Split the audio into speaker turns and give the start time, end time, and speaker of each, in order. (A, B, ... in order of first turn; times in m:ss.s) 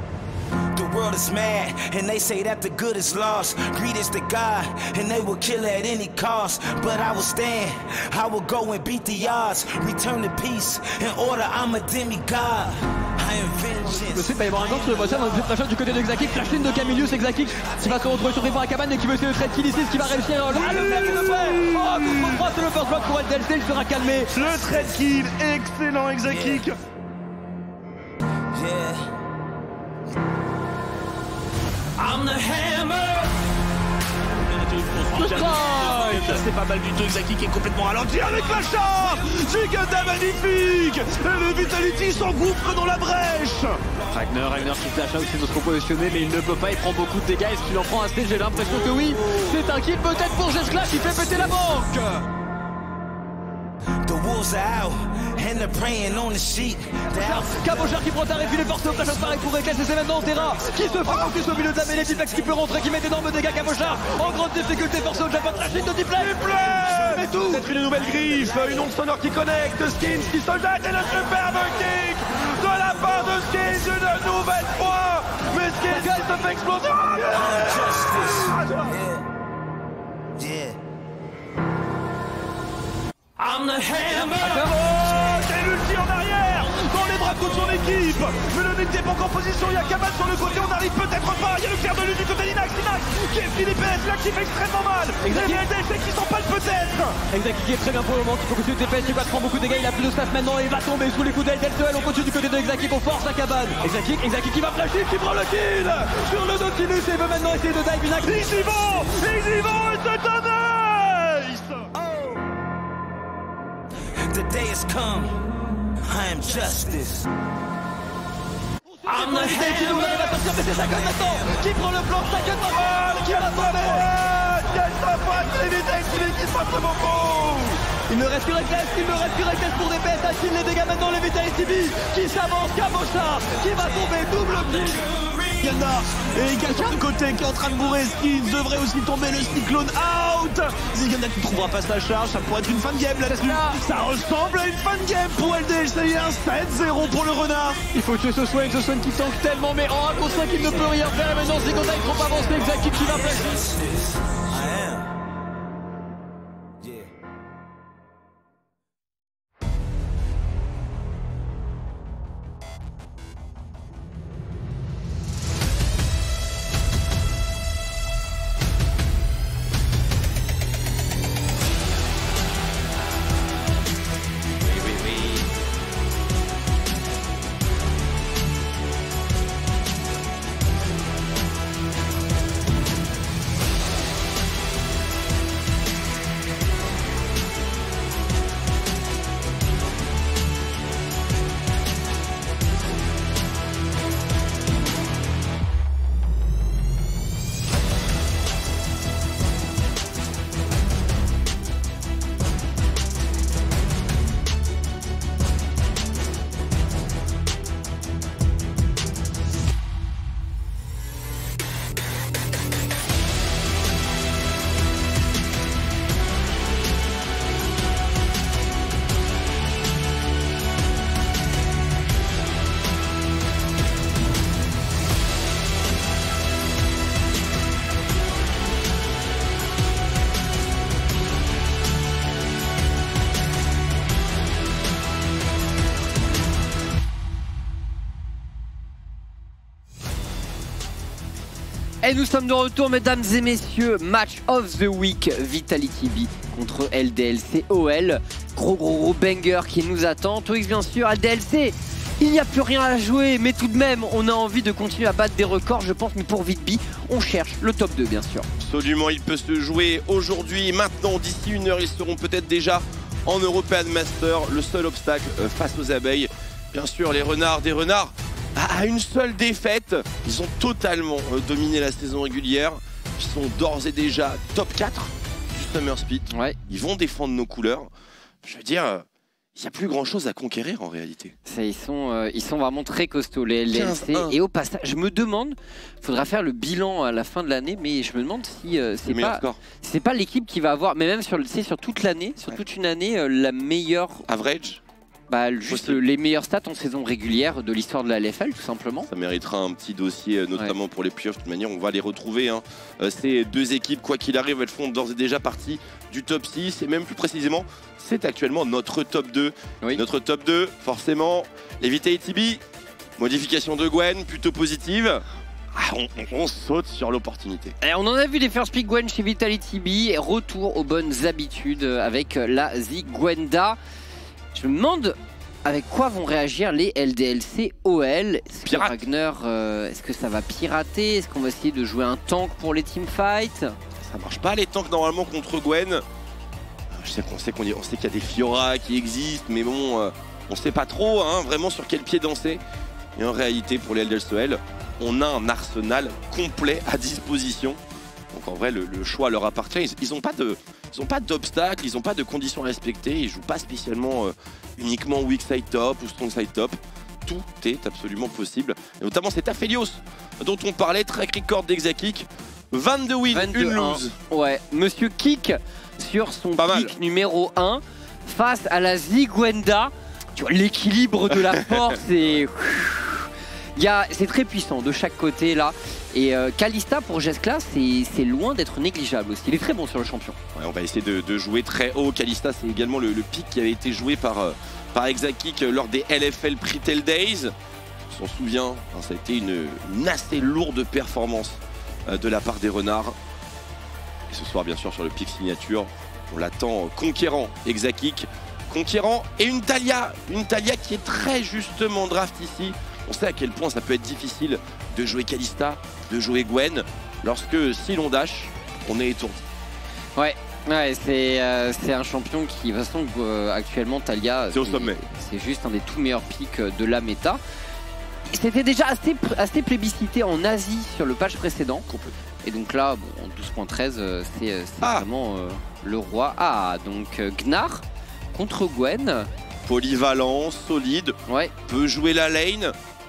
0:00.7-0:18.7 A
0:13.8-0:24.3 B
0:19.6-0:22.0 A
0:20.5-0:22.4 C
0:24.0-0:25.0 A
0:24.3-0:26.8 C
0:26.2-0:26.7 A
0:28.5-0:29.1 A
0:34.6-0:43.8 C
0:35.1-0:36.4 B
0:44.1-0:52.2 B
0:54.0-1:02.9 A
0:57.1-1:06.4 B
1:06.1-1:19.0 C
1:06.6-1:07.4 A
1:07.1-1:07.4 B
1:08.0-1:08.6 A
1:15.9-1:16.4 B
1:17.2-1:19.3 A
1:20.3-1:20.8 A
1:23.4-1:24.8 B
1:24.1-1:37.3 C
1:35.2-1:35.7 B
1:37.3-1:48.5 B
1:45.6-1:46.1 C
1:48.2-1:51.9 C
1:54.0-1:55.4 A
1:56.1-1:57.2 A
1:59.0-2:04.1 B
1:59.2-2:00.5 C
1:59.4-2:01.6 A
2:01.5-2:15.0 C
2:08.4-2:12.0 B
2:13.6-2:14.4 B
2:14.4-2:15.8 A
2:15.6-2:27.8 C
2:23.3-2:23.8 B
2:27.9-2:33.6 B
2:31.4-2:35.1 A
2:36.8-2:37.1 A
4:02.0-4:18.5 D
4:18.6-4:37.9 E
4:36.3-4:36.6 D
4:38.4-4:41.4 E
4:41.4-4:54.2 D
4:43.7-4:44.4 E
4:49.1-4:49.6 E
4:54.3-4:54.8 E
4:55.3-4:59.1 D
4:55.7-4:56.0 E
4:59.1-5:12.6 E
5:13.2-5:17.8 E
5:17.8-5:23.8 D
5:24.5-5:33.8 D
5:28.6-5:29.0 E
5:34.0-5:36.0 E
5:36.9-5:42.6 E
5:43.2-5:47.8 E
5:48.3-6:04.2 E
6:03.3-6:20.4 D
6:06.6-6:07.0 E
6:11.3-6:11.6 E
6:20.5-6:27.5 E
6:28.1-6:33.2 E
6:34.3-6:49.4 E
6:50.2-6:57.4 D
6:54.5-6:55.0 E
6:58.3-7:01.9 D
7:01.9-7:02.1 E
7:02.4-7:09.3 D
7:04.8-7:05.1 E
7:09.6-7:12.8 E
7:11.3-7:11.5 D